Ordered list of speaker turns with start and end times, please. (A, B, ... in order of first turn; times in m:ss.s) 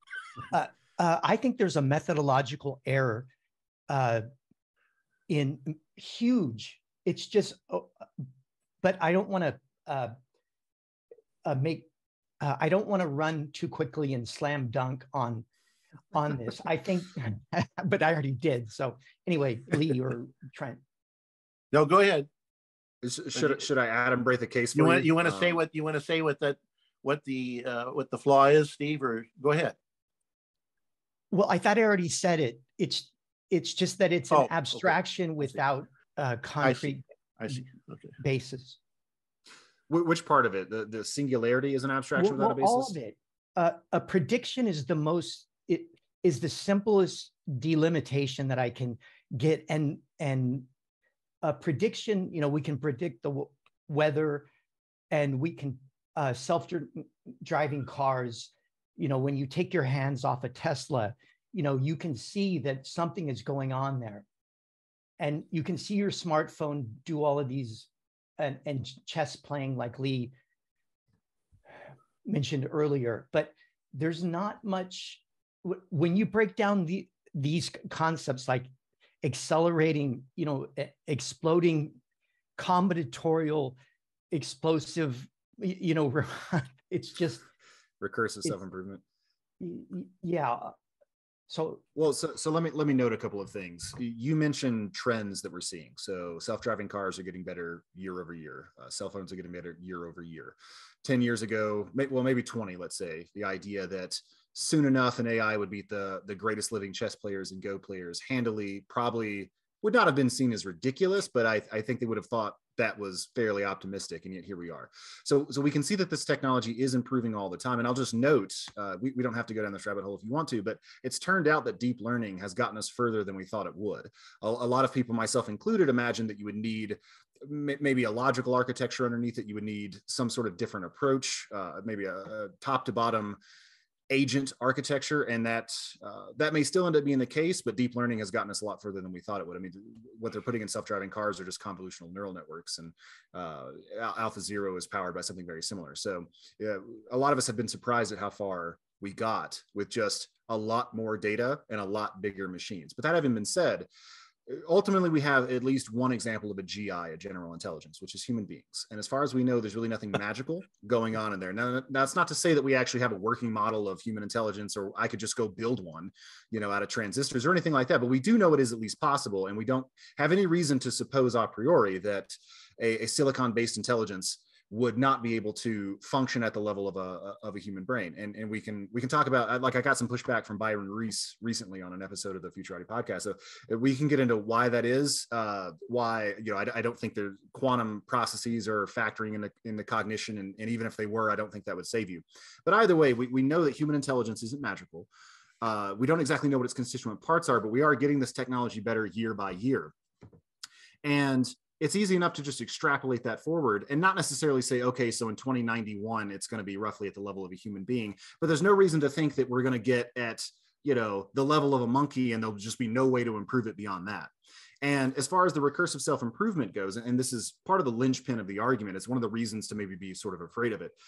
0:00.5-0:03.3 A
0:03.9-0:04.3 A
0:05.3-0:08.3 A
0:08.8-0:10.2 A
0:11.4-0:11.9 A
0:12.4-0:15.4 A
0:16.1-0:20.8 A
0:21.7-0:22.3 B
0:23.0-0:25.6 C
0:24.8-0:29.8 B
0:31.3-0:37.0 A
0:34.3-0:34.9 B
0:36.6-0:38.1 B
0:38.2-0:38.8 A
0:39.9-0:43.0 C
0:42.2-0:50.7 A
0:51.4-0:54.5 A
0:55.1-1:04.2 A
1:05.2-1:07.9 A
1:08.4-1:10.3 A
1:12.2-1:18.7 A
1:19.2-1:22.0 A
1:22.6-1:23.8 A
1:24.3-1:27.5 A
1:28.0-1:29.0 C
1:29.6-1:30.7 A
1:31.5-1:31.8 A
1:32.0-2:13.4 C
2:14.1-2:33.9 C
2:34.5-3:15.1 C
3:15.6-3:19.9 C
3:21.0-3:34.3 C
3:34.8-3:41.0 C